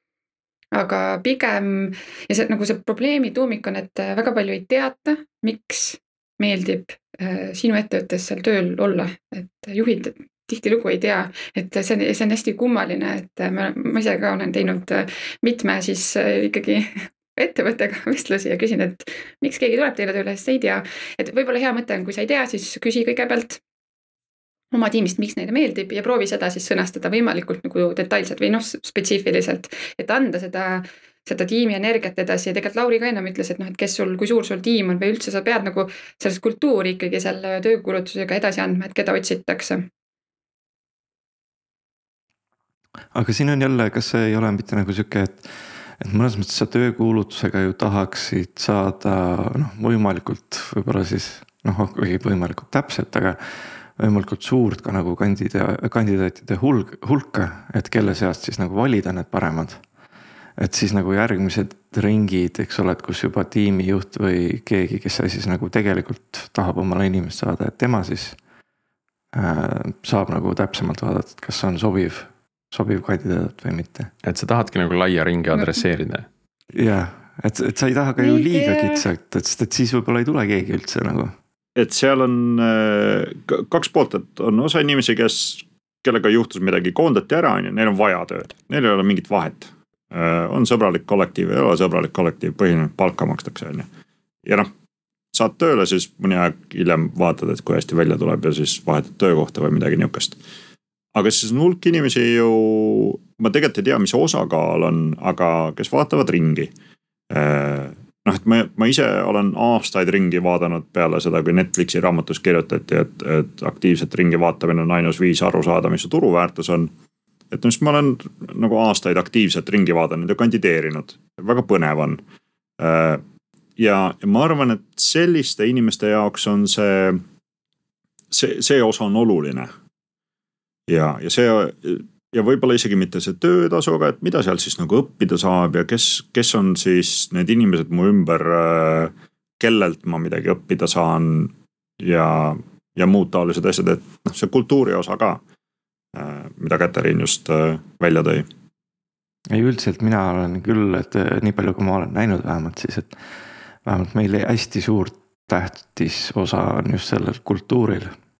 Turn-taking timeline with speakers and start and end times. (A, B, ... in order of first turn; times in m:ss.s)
0:00.7-0:23.6 A
0:24.7-0:39.9 A
0:43.1-0:59.8 B
1:00.6-1:08.4 B
1:09.3-1:14.1 B
1:14.2-1:16.3 C
1:16.7-1:21.4 B
1:18.2-1:19.1 A
1:21.8-1:33.9 D
1:34.4-1:34.7 D
1:35.3-1:40.4 D
1:41.1-1:46.7 D
1:47.3-1:56.9 D
1:57.5-2:02.2 D
2:02.8-2:03.2 D
2:03.8-2:07.2 D
2:08.3-2:09.7 D
2:10.9-2:25.4 D
2:26.1-2:28.5 D
2:29.5-2:33.2 B
2:33.8-2:38.2 B